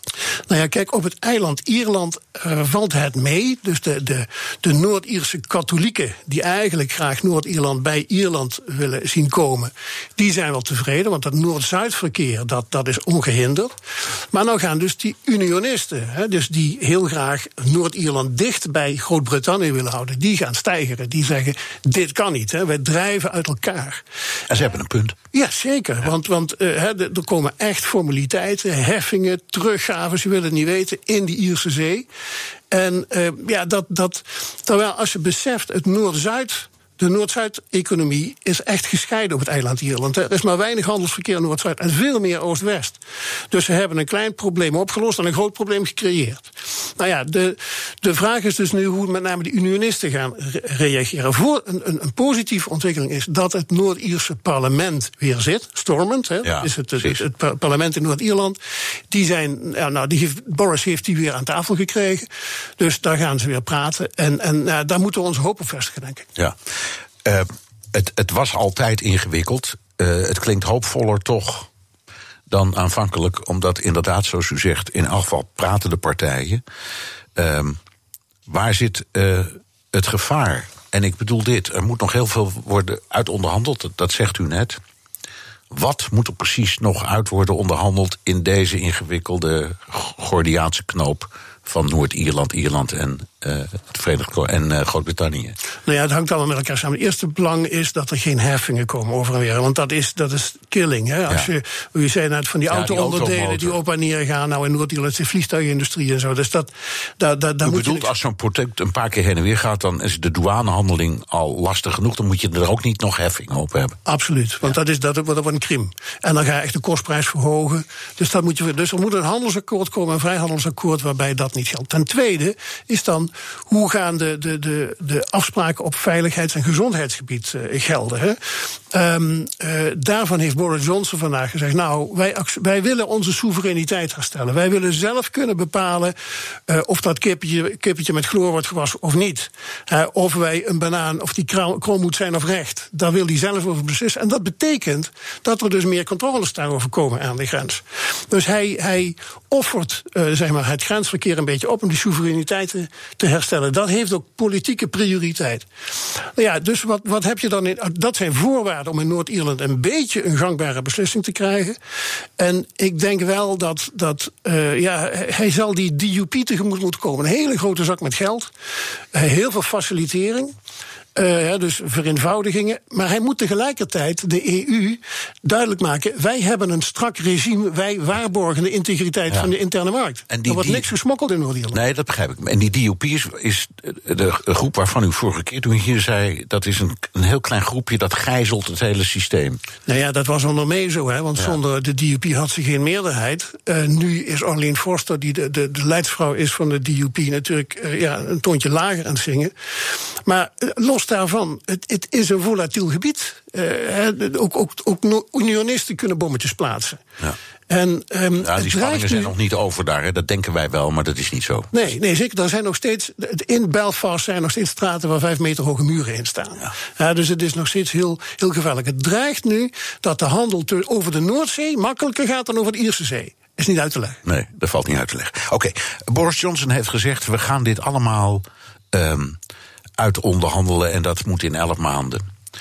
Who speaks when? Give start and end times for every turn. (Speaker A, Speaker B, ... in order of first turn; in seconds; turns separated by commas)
Speaker A: 0.5-13.7, Speaker A: 14.3-24.0, Speaker B: 24.5-25.2, Speaker A: 25.3-32.1, Speaker A: 32.7-58.6, Speaker B: 56.4-57.2, Speaker A: 59.1-66.3, Speaker B: 67.2-71.7, Speaker B: 72.5-76.6, Speaker B: 77.3-77.8, Speaker B: 78.5-84.8, Speaker B: 85.7-95.5, Speaker A: 95.8-108.1, Speaker B: 102.7-103.8, Speaker B: 107.6-114.0, Speaker A: 114.0-128.4, Speaker A: 128.9-136.1, Speaker A: 136.7-155.6, Speaker A: 156.2-161.8, Speaker A: 162.4-168.5, Speaker A: 169.1-170.5, Speaker A: 171.2-181.8, Speaker B: 180.3-180.9, Speaker B: 181.7-189.6, Speaker A: 189.9-199.5, Speaker A: 200.2-207.0, Speaker A: 207.7-209.3, Speaker B: 208.4-211.7, Speaker A: 211.7-224.2, Speaker B: 224.2-229.4, Speaker B: 230.0-232.2